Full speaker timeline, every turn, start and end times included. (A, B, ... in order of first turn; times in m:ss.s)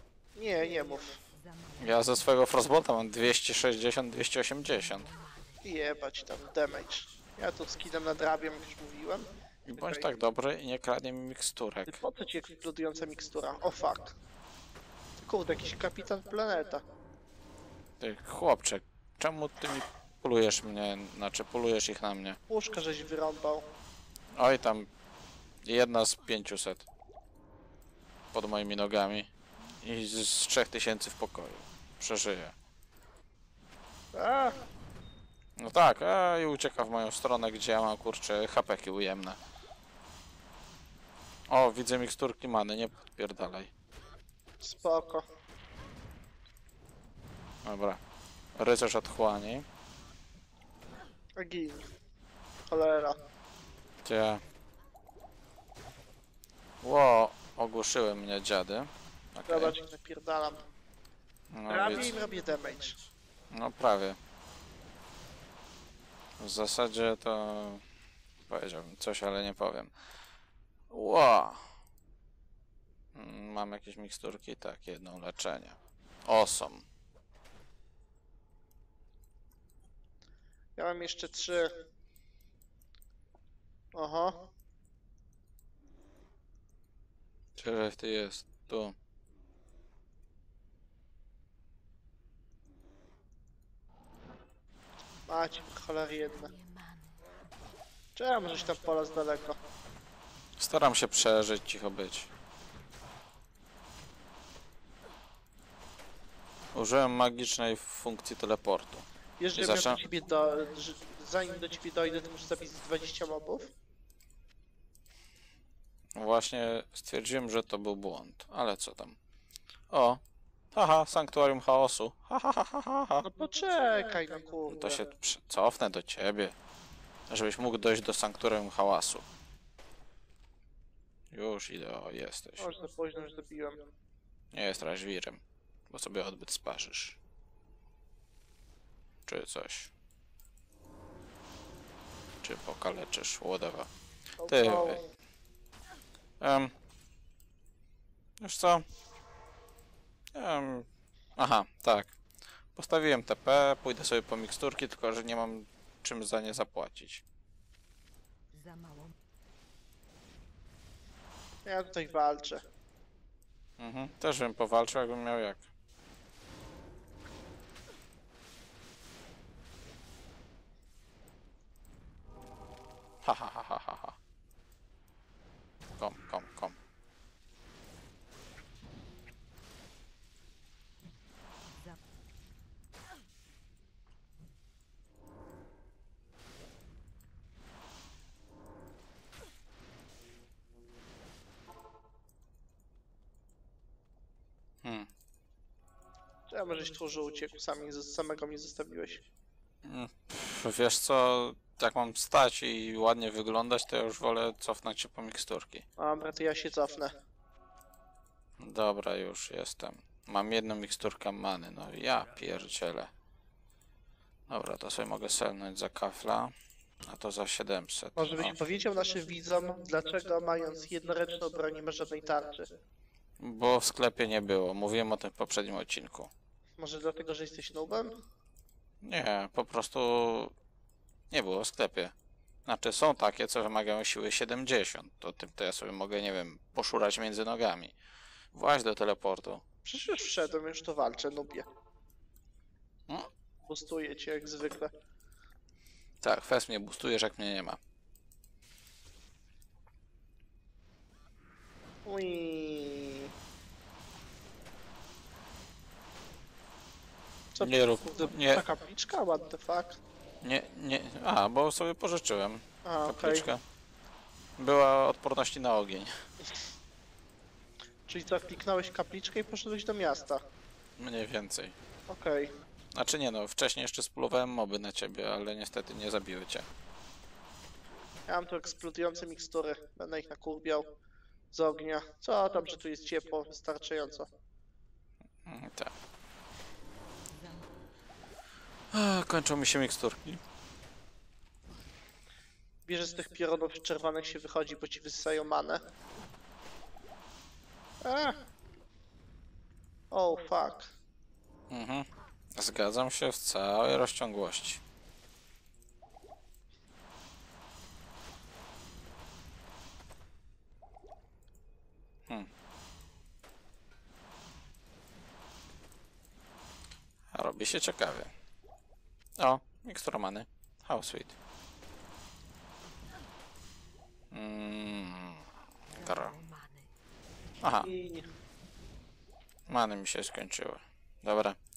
0:00.3-0:01.2 A
0:01.3-0:02.2 B
0:01.8-0:05.1 C
0:04.8-0:05.6 B
0:05.6-0:10.1 A
0:09.6-0:12.0 C
0:11.9-0:14.2 A
0:15.2-0:16.8 A
0:18.0-0:22.4 C
0:22.5-0:23.7 A
0:24.3-0:24.9 C
0:25.6-0:26.9 C
0:28.3-0:29.3 C
0:29.8-0:32.5 C
0:34.1-0:34.6 A
0:35.6-0:39.4 C
0:41.5-0:43.7 C
0:44.6-0:45.3 A
0:47.6-0:48.0 C
0:48.6-0:49.6 C
0:51.4-0:51.9 A
0:52.7-0:53.2 A
0:54.0-0:54.4 C
0:56.8-0:59.7 C
0:59.5-1:00.6 A
1:01.5-1:02.1 C
1:01.7-1:03.0 A
1:03.5-1:04.2 C
1:06.4-1:07.8 C
1:08.5-1:09.9 C
1:10.9-1:11.6 C
1:13.1-1:16.8 C
1:20.8-1:21.8 A
1:23.9-1:24.5 A
1:27.6-1:28.9 C
1:35.3-1:36.5 A
1:36.2-1:37.2 B
1:38.2-1:39.6 A
1:40.6-1:42.3 C
1:46.7-1:50.0 C
1:49.4-1:53.7 A
1:56.1-1:59.2 C
1:59.9-2:00.2 C
2:00.7-2:03.2 C
2:03.2-2:05.1 A
2:04.7-2:06.5 C
2:07.3-2:09.2 C
2:11.3-2:12.6 C
2:12.6-2:13.9 A
2:14.5-2:17.2 C
2:19.2-2:19.9 C
2:22.4-2:23.9 C
2:24.4-2:25.1 A
2:24.5-2:25.0 C
2:26.4-2:26.7 C
2:28.4-2:28.8 C
2:30.3-2:32.1 C
2:32.8-2:37.2 C
2:38.5-2:39.1 B
2:41.6-2:42.6 A
2:43.8-2:45.7 C
2:53.2-2:54.2 C
2:56.0-2:56.8 C
3:14.8-3:15.1 C
3:16.5-3:19.2 A
3:19.8-3:25.8 C
3:26.0-3:27.2 A
3:28.6-3:33.1 C
3:34.5-3:36.5 C
3:37.0-3:38.5 C
3:38.2-3:42.7 A
3:43.4-3:46.3 C
3:46.8-3:48.2 A
3:49.0-3:50.5 C
3:51.3-3:52.1 C
3:52.6-3:57.9 C
3:58.5-3:59.6 C
3:59.8-4:01.7 A
4:03.6-4:04.9 A
4:06.2-4:07.8 C
4:12.0-4:13.3 A
4:17.5-4:20.0 A
4:17.6-4:18.6 C
4:20.4-4:23.6 C
4:22.8-4:23.5 A
4:24.6-4:26.1 C
4:28.1-4:30.4 A
4:31.0-4:31.7 C
4:32.1-4:32.5 A
4:32.9-4:36.7 C
4:38.3-4:40.9 A
4:41.5-4:44.3 A
4:45.4-4:45.9 C
4:47.3-4:47.6 B
4:48.9-4:50.4 C
4:52.9-4:55.8 A
4:58.0-4:58.4 A
5:00.1-5:00.9 A
5:01.7-5:04.8 C
5:17.3-5:18.3 C
5:19.4-5:21.4 C
5:24.3-5:26.3 C
5:25.9-5:26.9 B
5:27.6-5:27.9 C
5:27.8-5:28.3 A
5:29.7-5:31.6 C